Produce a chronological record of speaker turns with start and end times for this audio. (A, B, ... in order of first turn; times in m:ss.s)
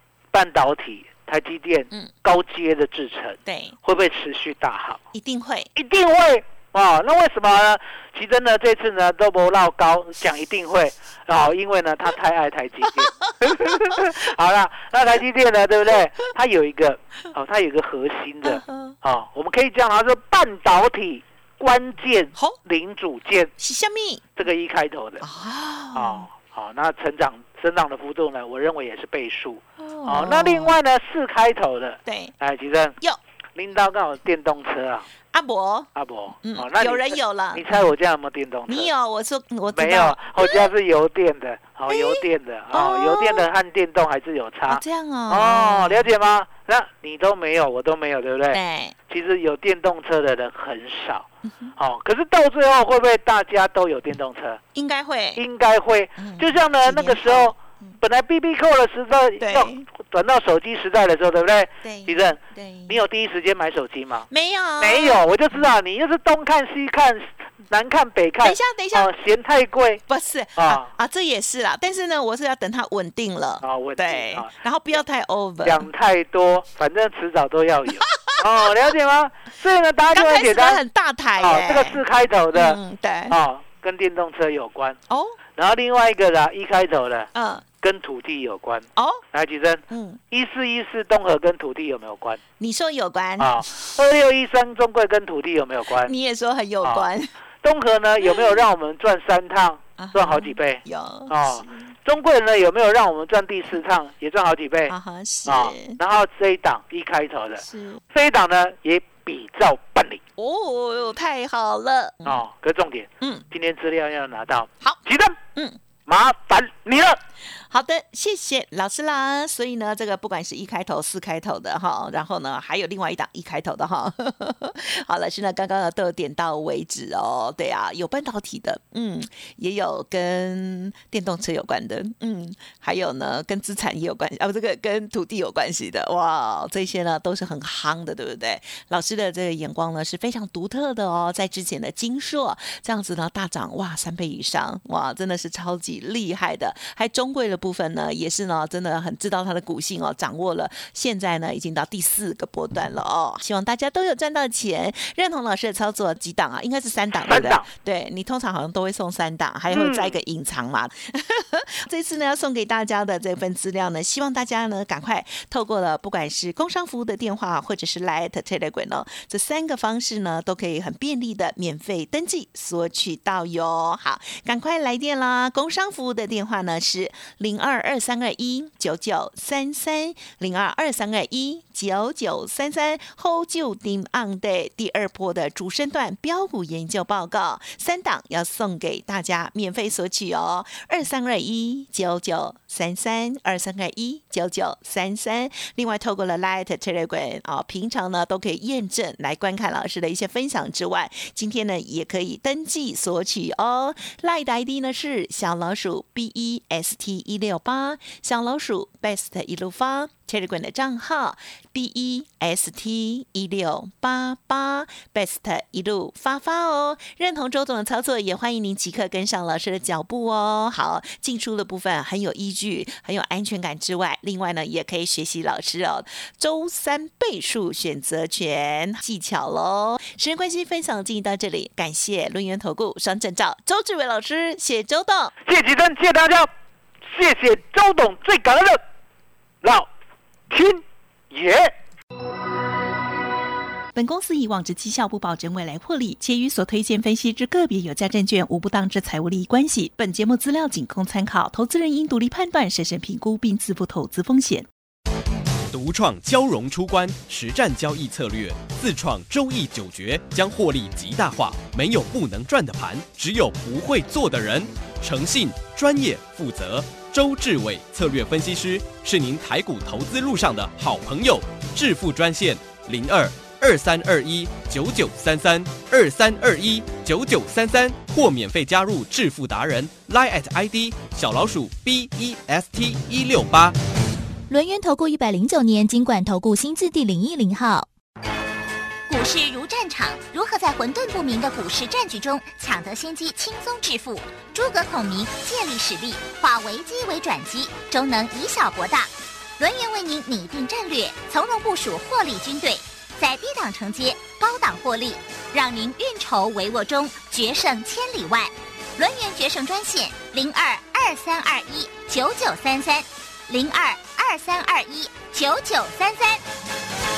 0:00.3-0:05.0 A
0:03.4-0:03.8 B
0:05.1-0:05.7 B
0:05.8-0:23.5 A
0:13.0-0:14.2 B
0:18.4-0:19.0 B
0:23.6-0:24.4 B
0:24.4-0:25.2 A
0:25.2-0:26.3 B
0:25.9-0:33.0 A
0:29.8-0:30.8 B
0:32.0-0:32.4 B
0:33.6-0:35.1 A
0:35.3-0:35.9 B
0:36.0-0:38.9 A
0:36.4-0:38.0 B
0:38.7-0:40.7 B
0:39.7-0:54.6 A
0:41.9-0:43.5 B
0:44.7-0:46.1 B
0:48.5-0:49.0 B
0:51.5-0:51.7 B
0:54.8-0:55.4 B
0:55.4-1:04.3 A
0:56.2-0:58.0 B
0:59.4-0:59.8 B
1:01.8-1:03.0 B
1:04.3-1:05.7 B
1:04.8-1:10.0 A
1:08.4-1:09.1 B
1:10.1-1:15.9 B
1:10.6-1:10.9 A
1:13.6-1:14.5 A
1:15.6-1:20.8 A
1:18.1-1:18.6 B
1:20.1-1:22.0 B
1:21.4-1:25.0 A
1:22.5-1:23.4 B
1:25.1-1:25.4 B
1:25.6-1:27.3 A
1:27.3-1:27.6 B
1:27.8-1:32.4 A
1:29.0-1:29.2 B
1:29.9-1:30.2 B
1:32.6-1:34.0 B
1:33.4-1:36.1 A
1:36.0-1:37.3 B
1:36.8-1:37.1 A
1:37.6-1:45.0 A
1:38.2-1:38.6 B
1:40.0-1:41.9 B
1:44.9-1:46.0 B
1:45.5-1:50.2 A
1:47.6-1:48.0 B
1:50.4-1:52.4 B
1:52.2-1:55.4 A
1:56.1-1:57.2 A
1:57.6-3:55.3 B
2:37.2-2:37.7 A
2:39.7-2:40.2 A
3:55.5-3:56.5 A
3:57.1-3:58.8 A
3:59.6-3:59.9 A
4:00.5-4:01.7 A
4:03.9-4:14.7 B
4:15.7-4:43.8 C
4:44.5-4:47.9 D
4:49.1-5:16.4 E